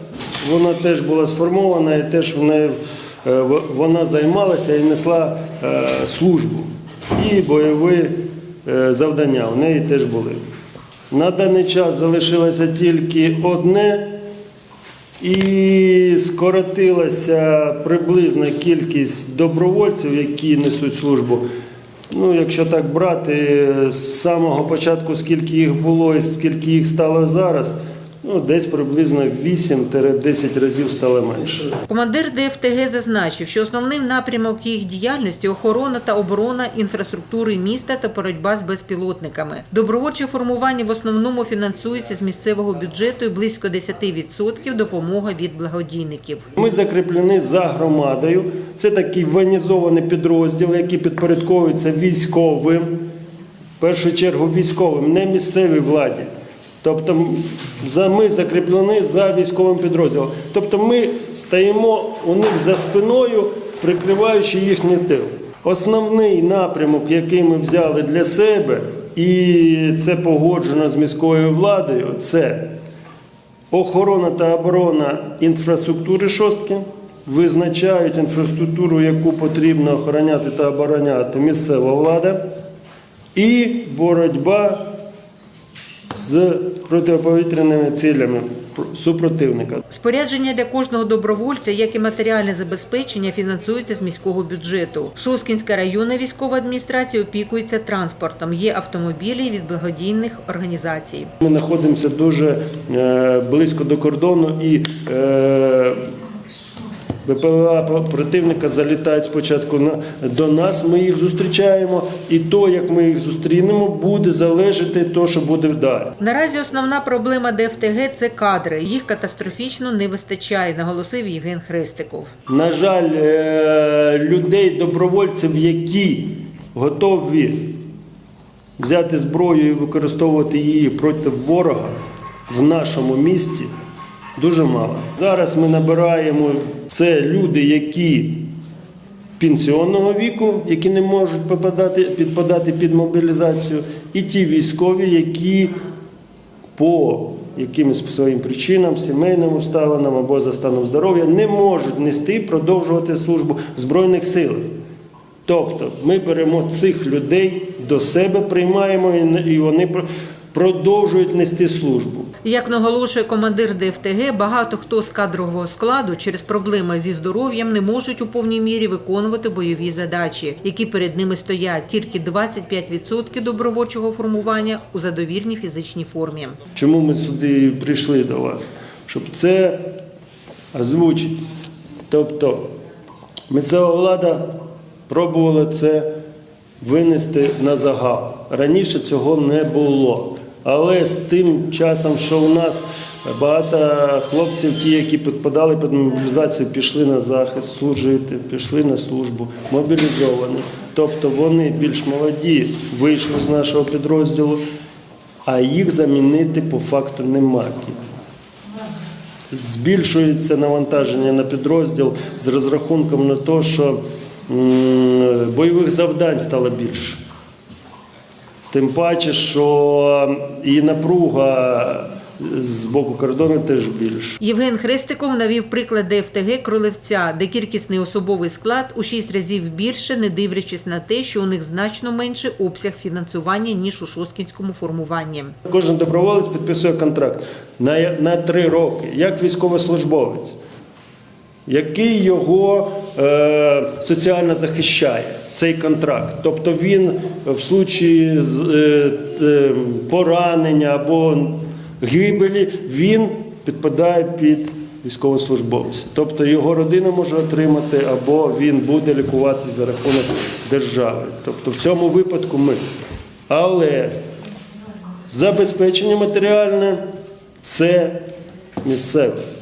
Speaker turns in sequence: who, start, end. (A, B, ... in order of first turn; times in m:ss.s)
0:00.4-0:10.4 A
0:11.1-0:14.2 A
0:15.2-0:21.4 A
0:22.1-0:31.7 A
0:31.9-0:46.5 B
0:46.6-0:53.1 A
0:53.8-0:56.3 A
0:56.8-1:12.7 A
1:13.7-1:22.4 A
1:23.4-1:25.0 A
1:26.2-1:29.8 A
1:29.9-1:41.3 B
1:41.4-1:46.0 A
1:47.2-1:56.1 A
1:56.2-2:02.3 B
2:02.5-2:07.8 A
2:08.8-2:12.0 A
2:12.5-2:13.7 A
2:14.4-2:18.5 A
2:19.4-2:25.8 A
2:26.8-2:34.7 A
2:35.5-2:42.3 A
2:42.4-2:56.6 B
2:56.8-2:59.9 A
3:00.7-3:01.4 A
3:02.1-3:02.7 A
3:03.5-3:04.6 A
3:05.1-3:06.1 A
3:06.8-3:24.6 A
3:25.4-3:28.0 A
3:29.5-3:37.2 A
3:38.7-3:44.4 A
3:44.4-3:55.6 B
3:55.7-4:00.6 A
4:01.7-4:22.8 A
4:23.5-4:24.1 A
4:25.3-4:27.0 A
4:27.6-4:28.3 A
4:28.8-4:29.4 A